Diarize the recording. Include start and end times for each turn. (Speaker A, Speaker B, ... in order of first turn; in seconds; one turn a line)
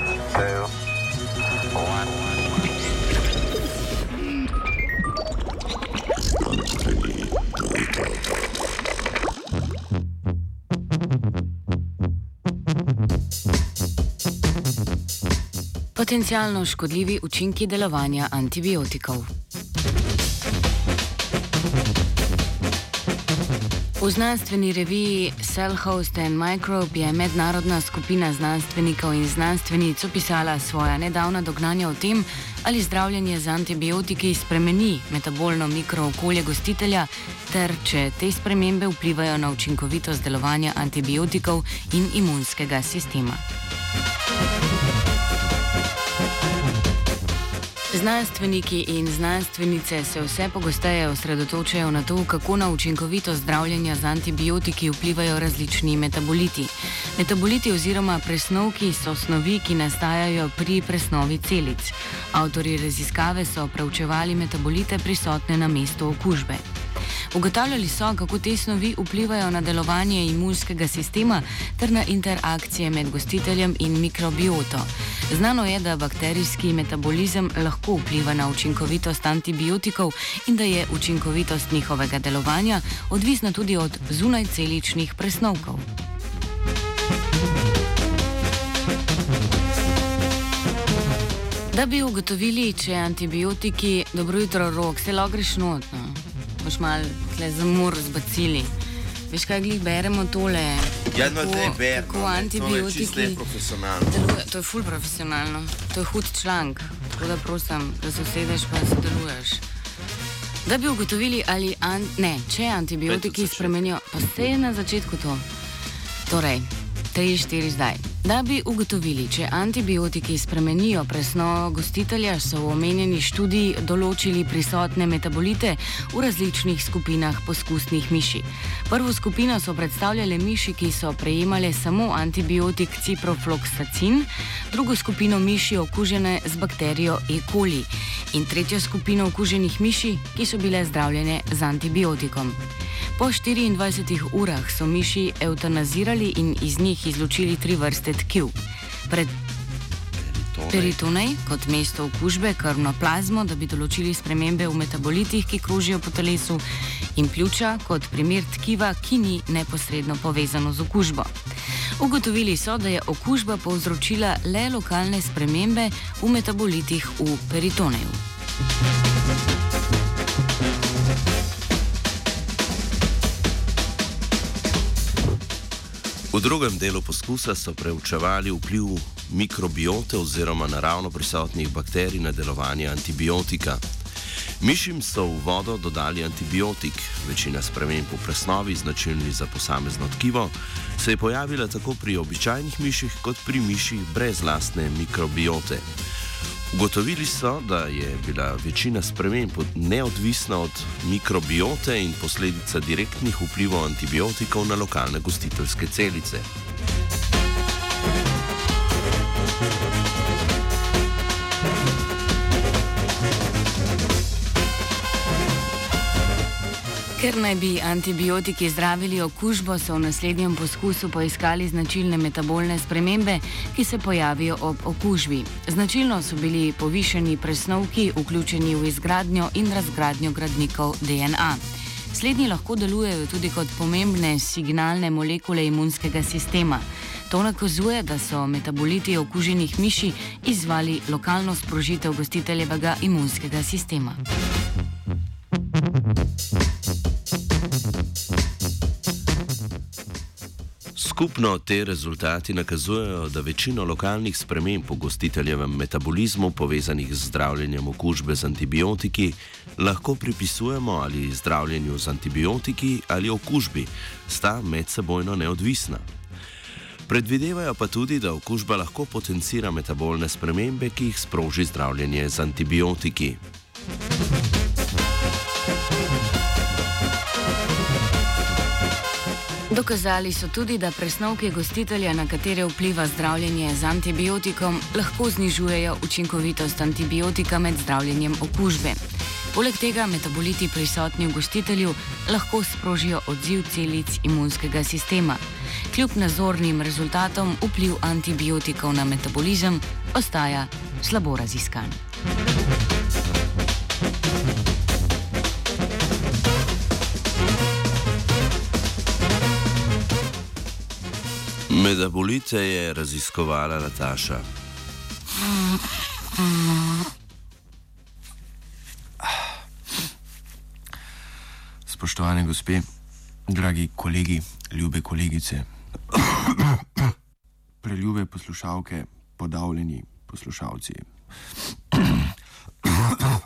Speaker A: 15.9-19.3
Speaker A: 24.0-43.4
Speaker A: 47.9-66.6
Speaker A: 67.3-85.9
Speaker A: 91.7-98.7
Speaker A: 99.3-103.4
Speaker B: 101.1-104.2
Speaker A: 104.1-109.6
Speaker A: 110.7-115.5
Speaker B: 113.1-114.0
Speaker A: 116.3-142.6
Speaker A: 143.2-149.4
Speaker B: 150.2-151.0
Speaker A: 150.7-156.6
Speaker A: 157.2-161.3
Speaker A: 162.0-168.2
Speaker B: 176.3-183.8
Speaker B: 184.6-195.9
Speaker B: 196.7-206.5
Speaker A: 217.2-244.2
Speaker B: 251.0-266.1
Speaker B: 267.1-273.4
Speaker A: 279.7-289.0
Speaker A: 289.5-302.0
Speaker B: 311.7-314.5
Speaker C: 321.9-322.9
Speaker C: 323.5-326.5
Speaker C: 327.8-331.1